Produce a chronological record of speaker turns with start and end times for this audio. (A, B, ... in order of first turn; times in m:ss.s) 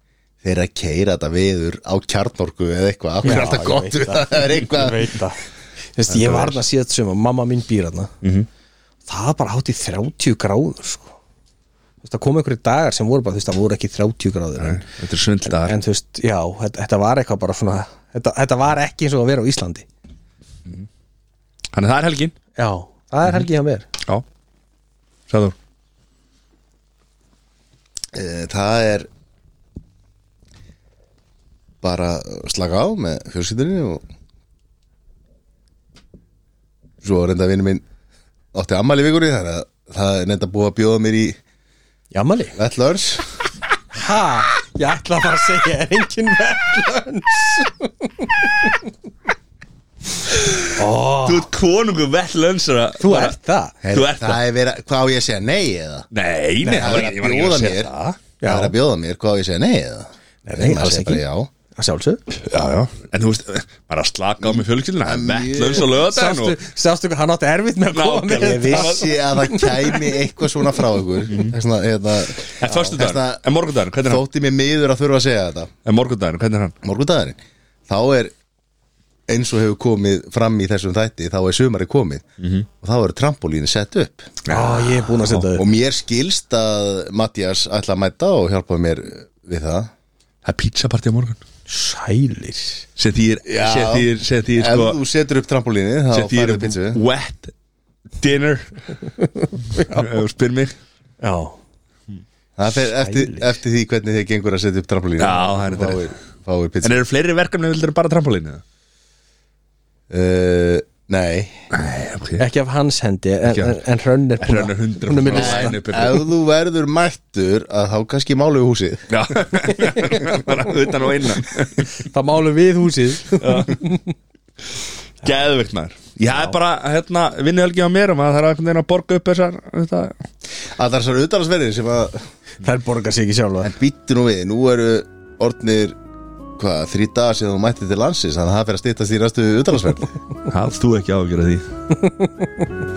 0:00.4-0:05.1 A
0:03.2-0:05.4 B
0:05.9-0:08.1 B
0:06.1-0:06.6 C
0:08.2-0:08.5 C
0:09.1-0:11.2 B
0:12.0-0:14.8 B
0:14.6-0:15.8 C
0:15.4-0:19.8 B
0:21.7-0:22.3 C
0:22.5-0:23.9 B
0:25.3-0:25.5 C
0:28.1-0:29.1 A
0:31.8-0:34.0 A
0:37.0-0:37.8 A
0:38.5-0:41.4 A
0:42.1-0:42.6 B
0:42.5-0:43.3 A
0:43.9-0:48.9 B
0:50.3-0:53.3 C
0:50.7-0:51.5 B
0:53.0-0:53.8 B
0:53.8-0:56.1 A
0:53.9-0:54.4 C
0:56.1-0:58.2 C
0:56.6-0:57.0 B
0:56.7-0:57.9 A
0:58.4-0:58.7 B
0:58.4-1:01.5 A
1:00.4-1:01.2 B
1:01.7-1:02.2 B
1:02.3-1:06.6 C
1:04.4-1:05.9 A
1:05.8-1:10.1 B
1:07.9-1:09.2 C
1:08.4-1:13.4 A
1:11.3-1:11.5 C
1:12.6-1:14.2 C
1:14.0-1:15.7 A
1:15.8-1:16.8 C
1:16.8-1:18.3 A
1:19.3-1:22.2 A
1:22.4-1:22.7 C
1:22.8-1:24.3 A
1:24.4-1:25.4 C
1:24.5-1:25.6 B
1:25.6-1:29.9 A
1:30.4-1:31.4 C
1:31.7-1:32.8 B
1:33.0-1:35.0 C
1:33.4-1:37.0 A
1:36.1-1:37.5 C
1:38.2-1:39.0 C
1:39.7-1:40.7 C
1:39.7-1:40.0 B
1:41.2-1:41.6 B
1:42.6-1:47.0 A
1:42.7-1:43.5 B
1:45.2-1:46.1 C
1:46.8-1:48.6 C
1:50.1-1:51.6 A
1:51.7-1:52.4 C
1:52.4-1:55.8 B
1:53.5-1:53.8 C
1:54.4-1:56.3 C
1:55.3-1:59.1 A
1:59.1-2:02.0 C
2:02.0-2:04.1 B
2:03.4-2:03.8 C
2:05.2-2:10.2 C
2:10.8-2:12.2 A
2:12.6-2:13.7 B
2:13.6-2:16.0 A
2:16.6-2:20.1 A
2:20.5-2:21.6 C
2:21.9-2:22.7 B